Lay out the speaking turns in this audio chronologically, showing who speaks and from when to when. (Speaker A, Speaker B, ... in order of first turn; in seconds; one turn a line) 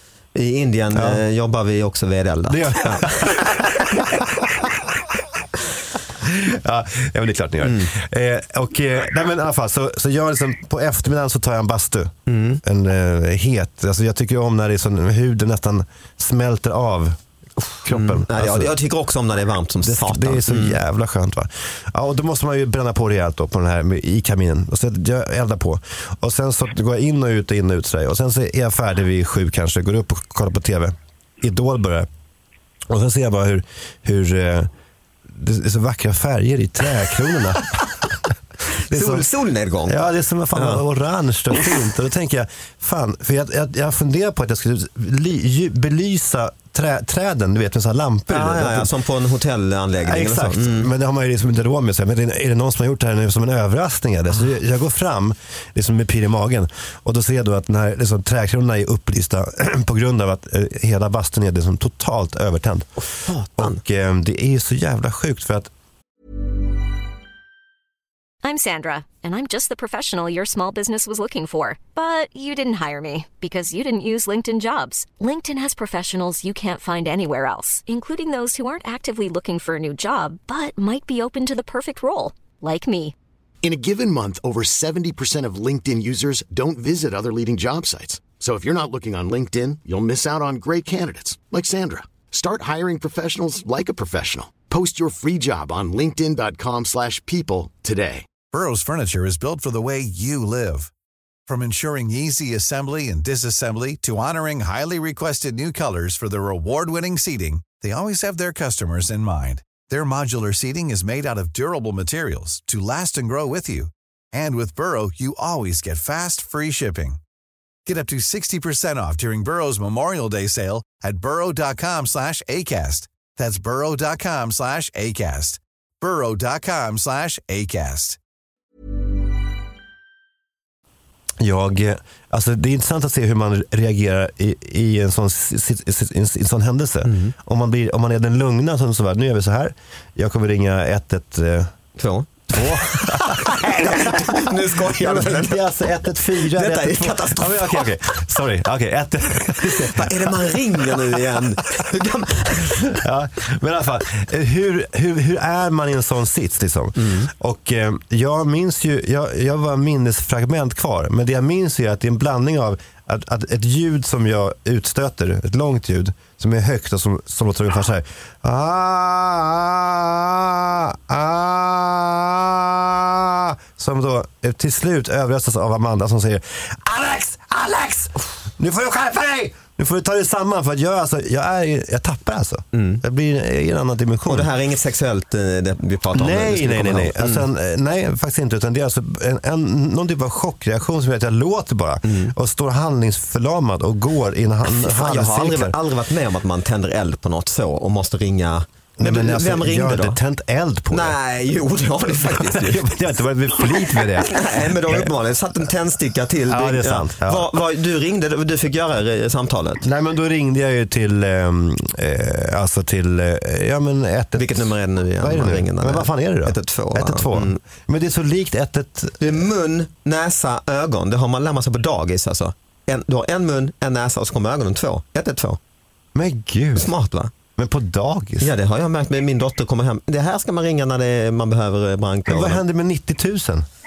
Speaker A: 0.3-4.0
Speaker B: 0.9-1.2
Speaker B: 2.5-4.7
Speaker B: 6.2-17.2
Speaker A: 7.6-7.9
Speaker A: 12.3-12.6
Speaker B: 17.8-18.7
Speaker A: 17.8-20.8
Speaker B: 19.8-32.1
Speaker B: 32.9-34.7
Speaker B: 35.3-37.8
Speaker B: 38.9-39.2
Speaker A: 38.9-40.0
Speaker B: 39.9-48.9
Speaker A: 40.5-40.8
Speaker A: 48.3-50.9
Speaker B: 50.0-63.0
Speaker A: 63.0-63.8
Speaker B: 63.6-65.7
Speaker C: 68.4-83.1
Speaker D: 83.6-98.3
Speaker E: 98.5-100.9
Speaker E: 101.5-117.2
Speaker E: 117.8-128.2
Speaker B: 131.4-141.7
Speaker A: 137.0-137.3
Speaker A: 142.0-145.7
Speaker B: 142.5-151.2
Speaker A: 146.2-147.9
Speaker A: 149.6-153.0
Speaker B: 152.9-184.5
Speaker A: 157.0-157.3
Speaker A: 182.7-183.0
Speaker A: 184.3-187.4
Speaker B: 186.1-195.8
Speaker A: 192.1-192.3
Speaker A: 194.7-200.2
Speaker B: 199.0-201.2
Speaker A: 200.9-202.9
Speaker B: 202.1-205.1
Speaker A: 204.2-209.8
Speaker B: 206.5-207.5
Speaker B: 209.8-219.3
Speaker A: 214.4-217.6
Speaker A: 219.2-225.6
Speaker B: 226.1-226.9
Speaker A: 226.8-227.3
Speaker B: 227.6-228.5
Speaker A: 228.4-232.6
Speaker B: 232.3-233.7